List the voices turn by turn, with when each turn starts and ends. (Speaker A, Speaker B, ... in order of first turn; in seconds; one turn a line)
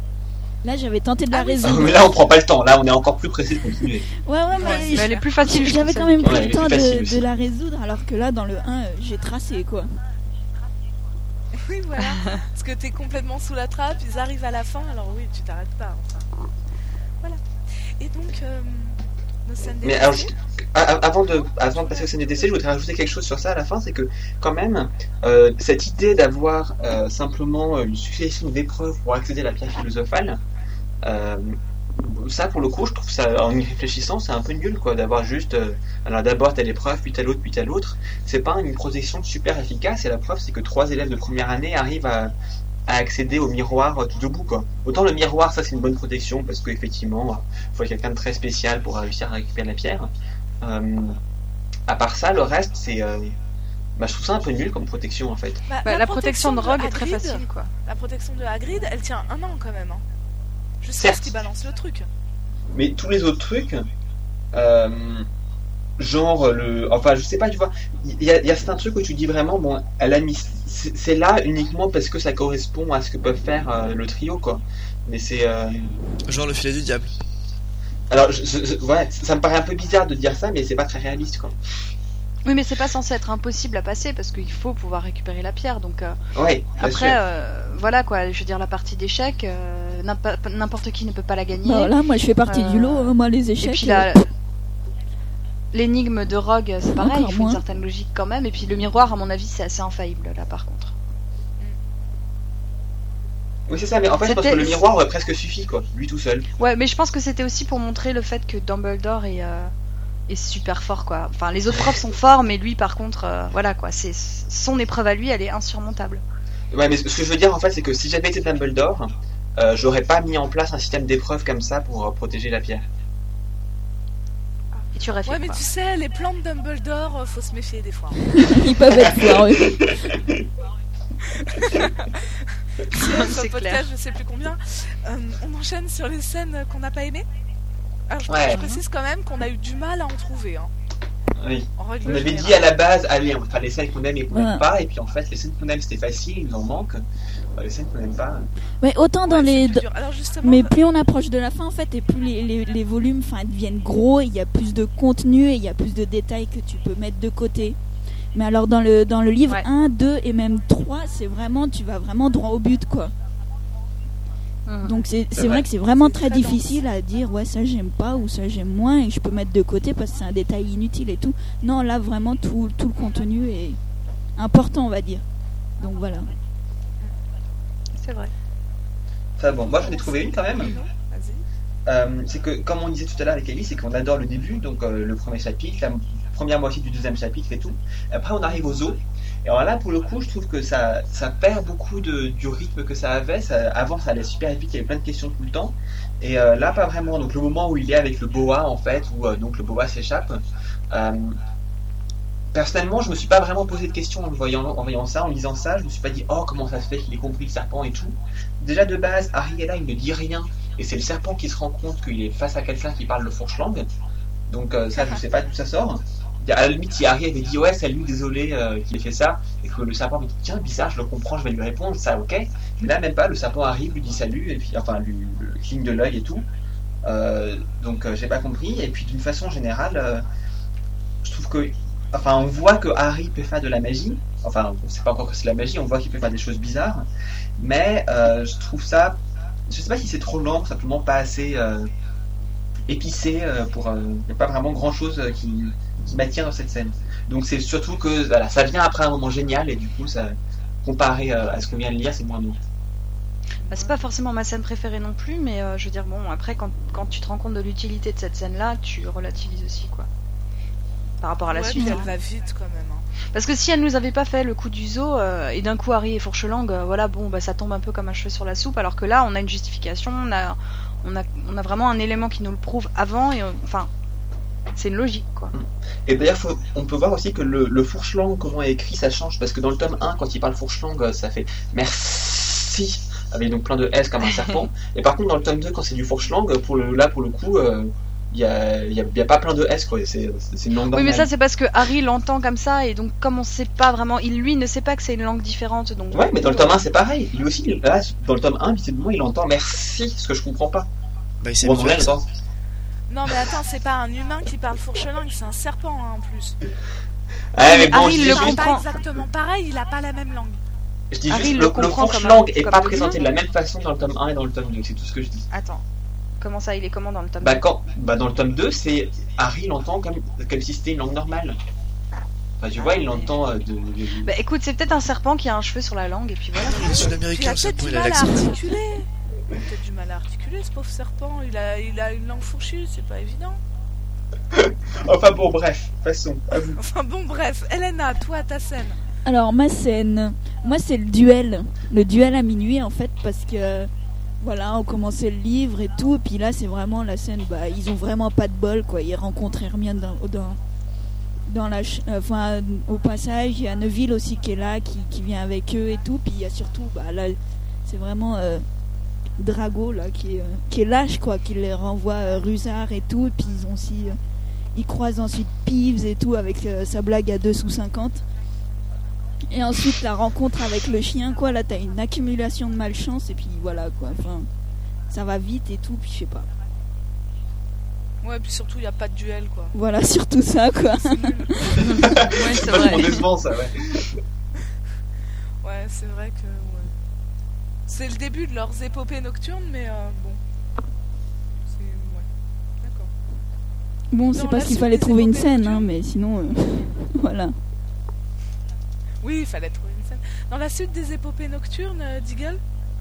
Speaker A: 0.6-2.1
Speaker B: 1.3-2.1
Speaker C: 1.6-4.1
Speaker A: 4.2-10.0
Speaker D: 4.6-6.7
Speaker B: 4.6-5.2
Speaker C: 6.2-7.3
Speaker B: 11.6-16.3
Speaker D: 12.0-12.4
Speaker B: 17.2-20.4
Speaker C: 19.8-30.4
Speaker B: 21.5-22.6
Speaker C: 31.0-42.3
Speaker C: 42.9-51.2
Speaker C: 51.9-53.4
Speaker C: 54.0-55.6
Speaker B: 55.7-60.0
Speaker D: 55.8-57.7
Speaker B: 60.8-62.1
Speaker C: 61.0-61.3
Speaker C: 62.7-63.9
Speaker C: 64.5-65.3
Speaker C: 66.0-75.9
Speaker E: 76.3-77.2
Speaker C: 78.1-81.6
Speaker D: 82.5-86.2
Speaker C: 86.3-87.2
Speaker D: 86.8-91.9
Speaker A: 91.7-94.1
Speaker D: 92.5-94.3
Speaker D: 95.7-100.9
Speaker A: 97.0-97.6
Speaker C: 103.7-106.5
Speaker D: 104.2-104.9
Speaker D: 106.6-109.7
Speaker D: 110.3-116.2
Speaker C: 116.7-122.9
Speaker B: 124.8-128.7
Speaker D: 124.9-125.6
Speaker A: 128.4-130.1
Speaker B: 131.2-137.2
Speaker D: 132.9-133.9
Speaker B: 138.1-140.7
Speaker C: 138.3-138.7
Speaker D: 138.5-138.8
Speaker C: 141.4-147.0
Speaker B: 141.8-142.7
Speaker A: 144.3-144.7
Speaker C: 147.6-148.5
Speaker A: 148.8-149.8
Speaker B: 149.3-150.7
Speaker A: 150.4-157.8
Speaker A: 158.3-163.1
Speaker D: 164.7-165.0
Speaker A: 164.8-173.8
Speaker C: 165.3-165.7
Speaker B: 165.9-166.7
Speaker A: 174.4-175.2
Speaker A: 175.8-176.3
Speaker D: 178.0-178.3
Speaker C: 179.4-180.8
Speaker B: 179.7-181.4
Speaker C: 181.9-201.4
Speaker C: 202.5-213.9
Speaker C: 214.5-226.5
Speaker C: 227.0-230.2
Speaker C: 231.2-237.1
Speaker C: 237.6-241.9
Speaker C: 242.9-252.6
Speaker B: 253.6-254.1
Speaker D: 253.7-260.1
Speaker D: 261.2-262.1
Speaker B: 261.5-263.1
Speaker A: 261.8-262.1
Speaker D: 263.3-273.9
Speaker D: 274.8-275.5
Speaker C: 275.5-291.3
Speaker D: 290.9-296.8
Speaker C: 296.1-300.9
Speaker E: 301.4-302.2
Speaker C: 301.6-302.3
Speaker B: 303.1-306.6
Speaker C: 307.5-308.7
Speaker D: 307.6-308.9
Speaker B: 307.9-310.6
Speaker C: 311.1-315.5
Speaker D: 311.3-313.3
Speaker D: 315.5-315.8
Speaker D: 316.4-317.6
Speaker C: 317.4-321.6
Speaker C: 322.6-324.3
Speaker D: 322.8-323.3
Speaker D: 324.2-327.2
Speaker E: 326.7-328.6
Speaker B: 327.1-333.6
Speaker C: 334.5-336.8
Speaker B: 336.8-339.0
Speaker A: 339.2-350.6
Speaker A: 351.5-358.7
Speaker A: 359.4-364.2
Speaker A: 364.8-368.2
Speaker A: 369.5-374.5
Speaker A: 375.1-376.5
Speaker B: 378.2-379.7
Speaker A: 379.7-381.8
Speaker B: 381.0-382.1
Speaker D: 381.8-383.2
Speaker C: 381.8-384.2
Speaker B: 385.6-386.9
Speaker B: 387.9-390.4
Speaker B: 391.7-392.3
Speaker B: 392.8-393.1
Speaker A: 394.1-397.6
Speaker B: 394.4-395.9
Speaker B: 399.2-402.6